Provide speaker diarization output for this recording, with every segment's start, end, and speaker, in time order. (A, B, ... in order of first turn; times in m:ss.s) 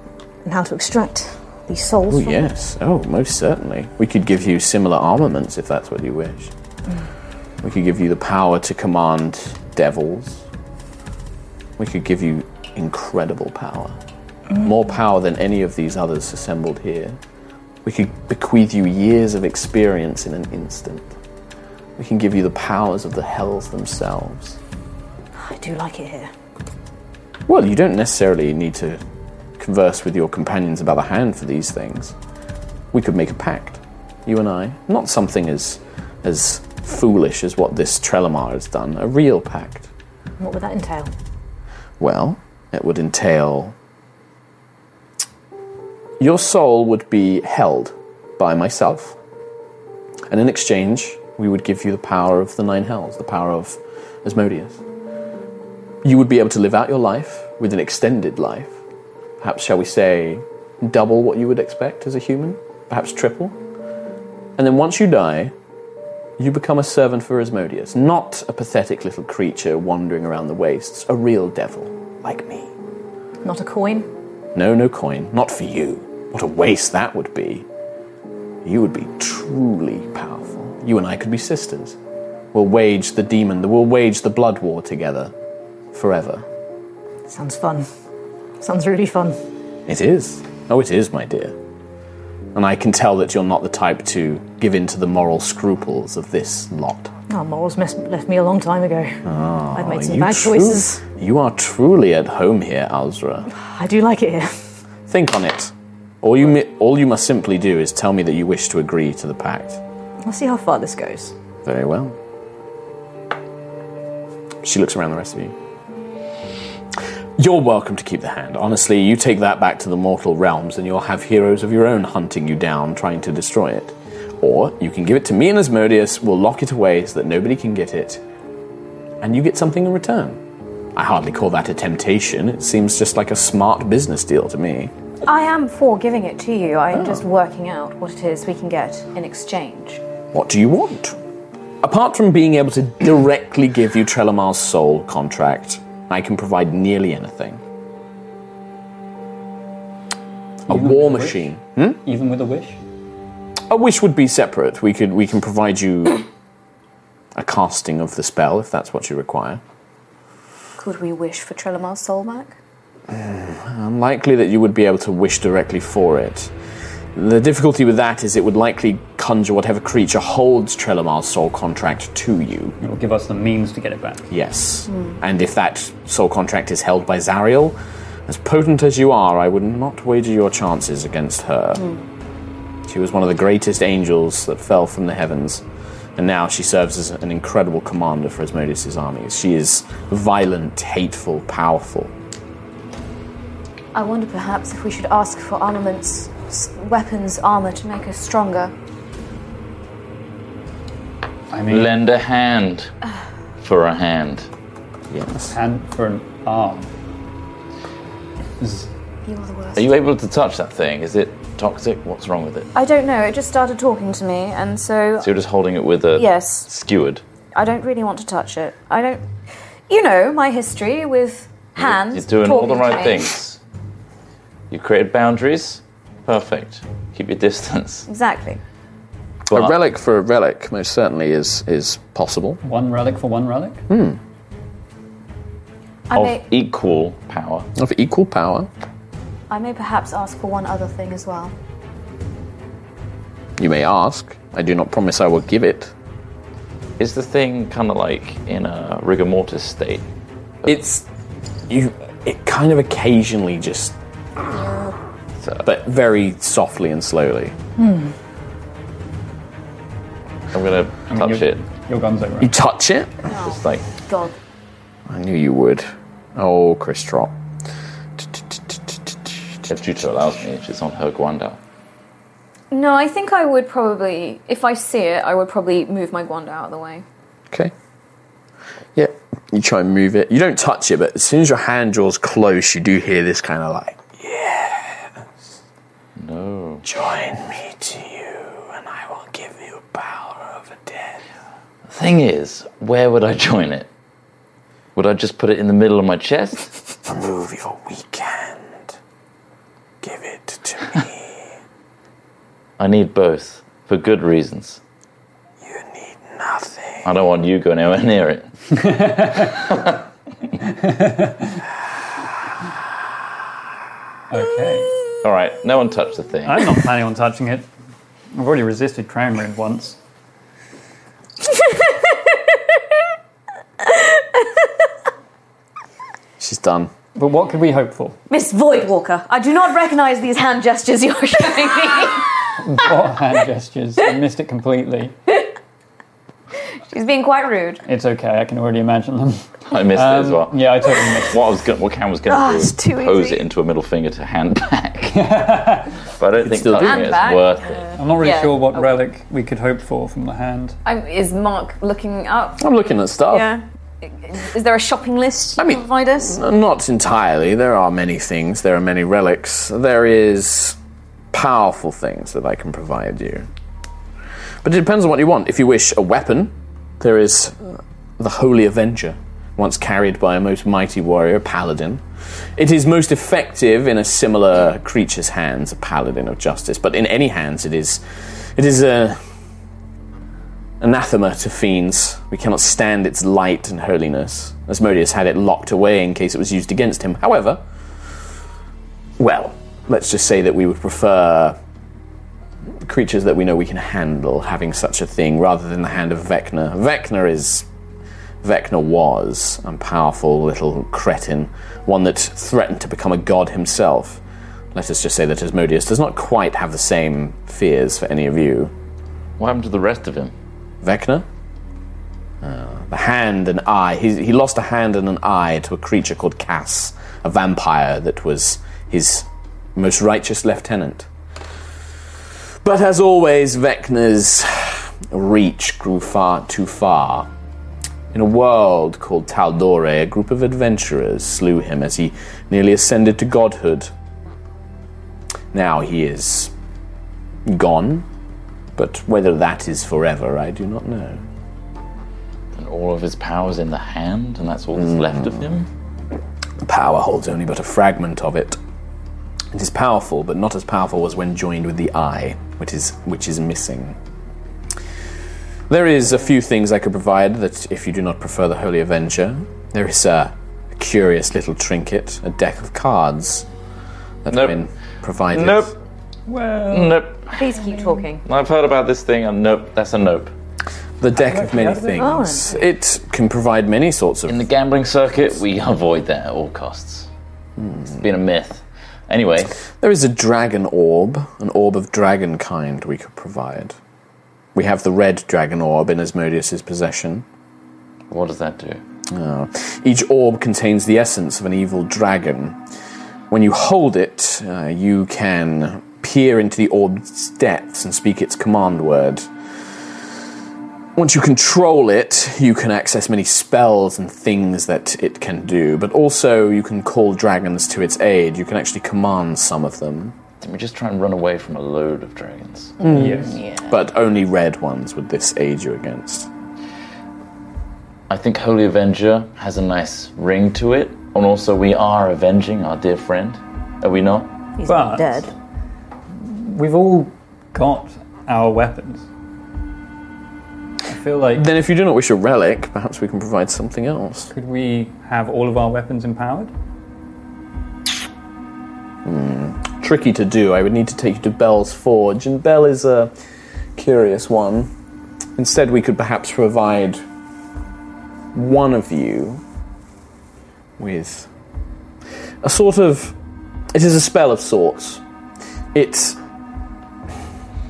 0:00.4-0:02.5 A
0:02.1-0:06.5 B
0:07.6-0:10.4 B
0:11.8-0:14.0 B
0:14.6-0:17.2 B
0:17.8-0:21.1 B
0:22.0-0:24.6 B
0:25.4-0:26.3 A
0:27.5-0:29.0 B
0:29.6-0:32.2 B
0:32.9-0:39.9 B
0:40.4-0:41.1 A
0:42.0-0:43.7 B
0:46.2-0:49.2 B
0:50.3-0:54.8 B
0:56.0-0:58.7 B
0:59.4-1:03.6 B
1:04.6-1:05.5 B
1:06.4-1:12.7 B
1:13.4-1:14.1 A
1:14.6-1:17.6 B
1:18.6-1:22.0 B
1:22.5-1:25.3 B
1:25.9-1:26.4 B
1:27.3-1:27.9 A
1:28.6-1:29.4 A
1:29.9-1:31.5 B
1:32.6-1:37.1 B
1:37.3-1:39.2 A
1:39.3-1:43.5 B
1:39.8-1:41.0 A
1:43.6-1:44.6 A
1:45.1-1:49.8 B
1:50.2-1:51.3 A
1:51.6-1:52.2 B
1:54.6-1:55.5 B
1:57.4-2:08.2 B
2:09.2-2:10.4 B
2:11.0-2:14.9 B
2:15.2-2:20.0 C
2:16.9-2:17.2 B
2:20.3-2:21.2 B
2:21.8-2:27.6 B
2:30.7-2:32.0 B
2:30.7-2:31.5 D
2:32.0-2:32.8 D
2:33.7-2:36.2 B
2:37.4-2:39.6 B
2:40.8-2:42.6 C
2:43.1-2:46.5 B
2:47.2-2:52.8 B
2:52.8-2:54.2 D
2:54.3-3:01.8 B
2:54.9-2:55.2 C
3:01.8-3:02.0 C
3:02.9-3:05.6 B
3:06.2-3:12.1 B
3:13.9-3:18.7 C
3:21.5-3:21.9 D
3:21.7-3:22.9 E
3:23.6-3:24.5 E
3:25.1-3:25.5 B
3:25.4-3:26.9 D
3:28.6-3:28.9 D
3:29.3-3:29.9 C
3:29.8-3:32.7 E
3:32.8-3:35.3 C
3:35.2-3:37.2 E
3:36.2-3:36.7 C
3:37.5-3:39.2 C
3:39.9-3:43.3 C
3:41.8-3:43.6 E
3:44.7-3:48.1 E
3:48.1-3:48.6 C
3:49.5-3:52.6 B
3:52.6-3:53.8 D
3:53.9-3:54.2 B
3:56.1-3:56.4 C
3:56.1-3:57.7 E
3:57.8-3:58.7 B
3:59.5-4:01.5 C
4:03.6-4:05.9 B
4:07.0-4:10.0 E
4:10.7-4:11.0 B
4:11.7-4:14.0 B
4:15.6-4:17.5 B
4:17.8-4:18.1 A
4:20.5-4:21.6 E
4:21.1-4:22.6 D
4:22.4-4:23.2 B
4:23.3-4:24.4 C
4:23.4-4:23.9 E
4:25.1-4:27.3 B
4:28.2-4:29.0 B
4:29.7-4:31.6 E
4:32.7-4:37.0 C
4:39.0-4:45.1 B
4:46.2-4:46.9 E
4:46.8-4:51.2 B
4:51.9-4:53.9 E
4:55.0-4:56.7 E
4:57.1-4:58.9 B
5:00.0-5:01.3 B
5:02.8-5:04.8 E
5:05.6-5:07.0 B
5:07.0-5:08.5 E
5:08.7-5:09.6 D
5:10.6-5:11.6 D
5:14.3-5:14.9 D
5:15.2-5:16.8 E
5:16.5-5:17.7 D
5:18.3-5:20.0 D
5:26.4-5:26.9 B
5:27.2-5:28.2 D
5:28.3-5:32.3 C
5:32.6-5:35.2 D
5:36.9-5:37.8 C
5:37.9-5:41.4 D
5:39.7-5:45.5 E
5:42.3-5:43.4 C
5:45.1-5:46.0 D
5:46.2-5:47.9 E
5:46.4-5:47.2 B
5:46.8-5:48.9 C
5:48.0-5:50.8 D
5:50.8-5:52.6 C
5:52.6-5:53.5 B
5:53.3-5:56.4 C
5:55.6-6:00.8 B
6:01.3-6:03.5 B
6:04.6-6:12.0 B
6:12.6-6:18.0 B
6:18.6-6:19.2 B
6:20.8-6:27.6 B
6:29.2-6:31.6 B
6:32.8-6:37.7 B
6:38.4-6:44.2 B
6:44.7-6:48.7 B
6:49.4-6:50.3 E
6:50.8-6:51.2 B
6:52.4-7:01.1 B
7:02.6-7:07.3 B
7:08.1-7:13.9 B
7:15.5-7:16.5 B
7:17.5-7:18.1 B
7:18.8-7:21.2 B
7:22.6-7:25.7 E
7:26.6-7:28.6 B
7:29.5-7:34.0 B
7:35.7-7:43.5 B
7:44.2-7:45.7 B
7:44.3-7:44.6 E
7:45.3-7:45.7 E
7:46.3-7:47.0 D
7:46.7-7:47.3 E
7:47.3-7:48.2 C
7:48.2-7:50.3 E
7:51.0-7:54.4 B
7:51.2-7:52.1 D
7:52.0-7:52.6 A
7:54.3-7:57.1 E
7:57.9-7:59.5 E
7:59.8-8:03.8 B
8:04.6-8:07.2 B
8:08.1-8:08.8 E
8:09.1-8:12.6 B
8:13.3-8:19.3 B
8:21.0-8:30.2 B
8:30.4-8:32.8 E
8:32.8-8:36.3 B
8:32.9-8:33.4 D
8:38.1-8:44.3 E
8:44.6-8:45.3 A
8:44.7-8:45.2 D
8:46.2-8:49.1 D
8:50.9-8:51.5 D
8:51.4-8:54.3 B
8:54.3-8:56.5 D
8:59.0-9:03.1 B
9:03.8-9:04.7 B
9:05.4-9:07.0 B
9:08.3-9:09.4 B
9:10.8-9:11.3 B
9:12.4-9:13.2 B
9:13.7-9:15.0 B
9:15.7-9:16.2 B